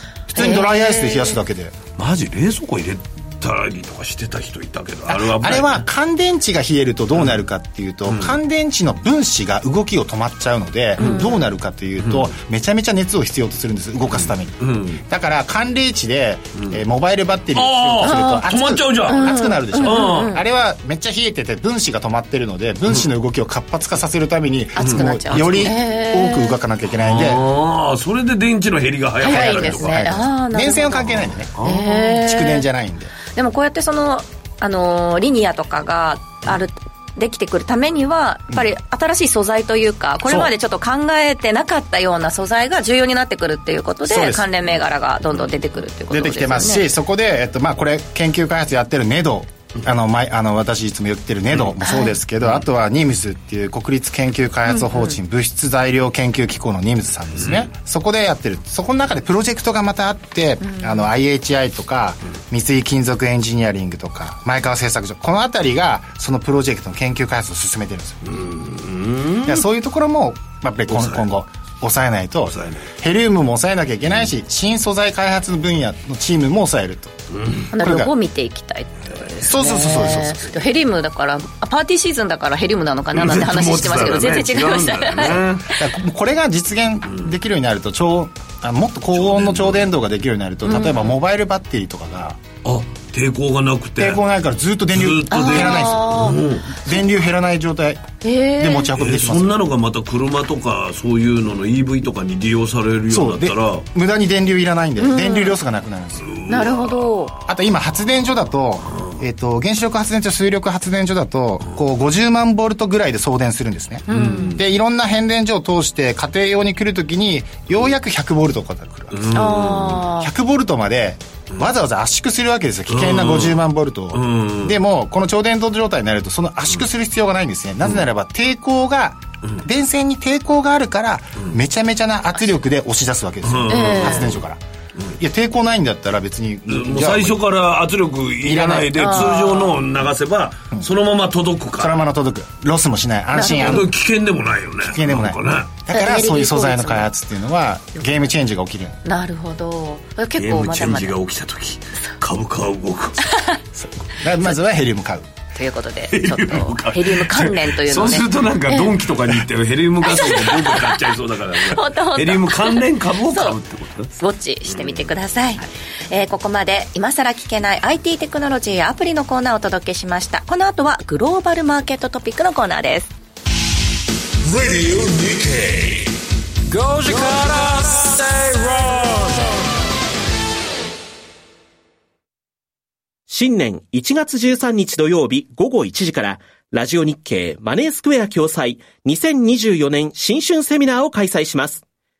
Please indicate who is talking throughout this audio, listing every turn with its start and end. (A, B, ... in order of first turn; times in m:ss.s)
0:00.3-0:01.8 A
0:00.3-0:01.4 B
0:02.0-0:05.8 C
0:05.1-0:27.4 A
0:08.1-0:08.3 C
0:11.0-0:11.2 C
0:11.0-0:11.4 B
0:12.0-0:12.3 C
0:14.1-0:15.0 C
0:17.5-0:20.3 C
0:18.0-0:18.4 B
0:19.1-0:20.4 B
0:24.8-0:26.6 B
0:24.8-0:25.7 C
0:26.9-0:30.1 C
0:29.2-0:32.7 B
0:29.2-0:31.5 A
0:31.5-0:32.2 C
0:32.1-0:33.1 A
0:33.3-0:46.8 B
0:44.0-0:44.4 A
0:46.1-1:08.2 A
0:51.8-0:52.1 B
0:54.7-0:55.2 B
0:57.4-0:57.6 C
1:00.6-1:01.1 B
1:08.2-1:09.6 C
1:09.4-1:17.2 A
1:10.9-1:11.3 C
1:12.4-1:12.9 C
1:17.3-1:17.7 C
1:17.7-1:25.4 B
1:17.7-1:18.1 A
1:19.3-1:20.6 C
1:19.5-1:20.3 A
1:23.1-1:25.6 C
1:25.7-1:32.4 A
1:29.1-1:29.8 C
1:30.6-1:31.1 B
1:32.6-1:34.2 C
1:34.0-1:36.3 A
1:34.9-1:36.6 C
1:35.3-1:36.4 B
1:36.8-1:39.6 A
1:38.2-1:38.9 B
1:39.0-1:43.8 C
1:43.1-1:46.4 A
1:45.0-1:45.6 B
1:46.2-1:47.2 C
1:46.5-1:47.3 B
1:47.5-1:59.3 A
1:54.1-1:54.6 B
1:54.1-1:54.6 C
1:59.1-2:00.1 C
1:59.3-2:00.3 B
2:00.2-2:14.6 A
2:02.9-2:03.6 C
2:04.1-2:04.7 C
2:13.4-2:14.4 C
2:13.7-2:14.2 B
2:15.2-2:17.4 A
2:16.7-2:22.0 C
2:18.4-2:19.0 A
2:19.0-2:19.8 B
2:21.8-2:23.9 A
2:23.3-2:23.8 B
2:23.4-2:25.7 C
2:24.8-2:29.0 A
2:25.9-2:27.1 B
2:27.9-2:28.2 B
2:29.0-2:31.2 B
2:30.4-2:33.3 C
2:33.2-2:33.6 B
2:33.8-2:35.3 A
2:35.5-2:38.9 B
2:36.1-2:44.1 C
2:40.0-2:41.0 B
2:41.6-2:43.6 B
2:44.2-2:53.1 B
2:44.6-2:45.1 C
2:54.4-2:56.2 D
2:56.7-2:59.6 D
3:03.3-3:11.8 E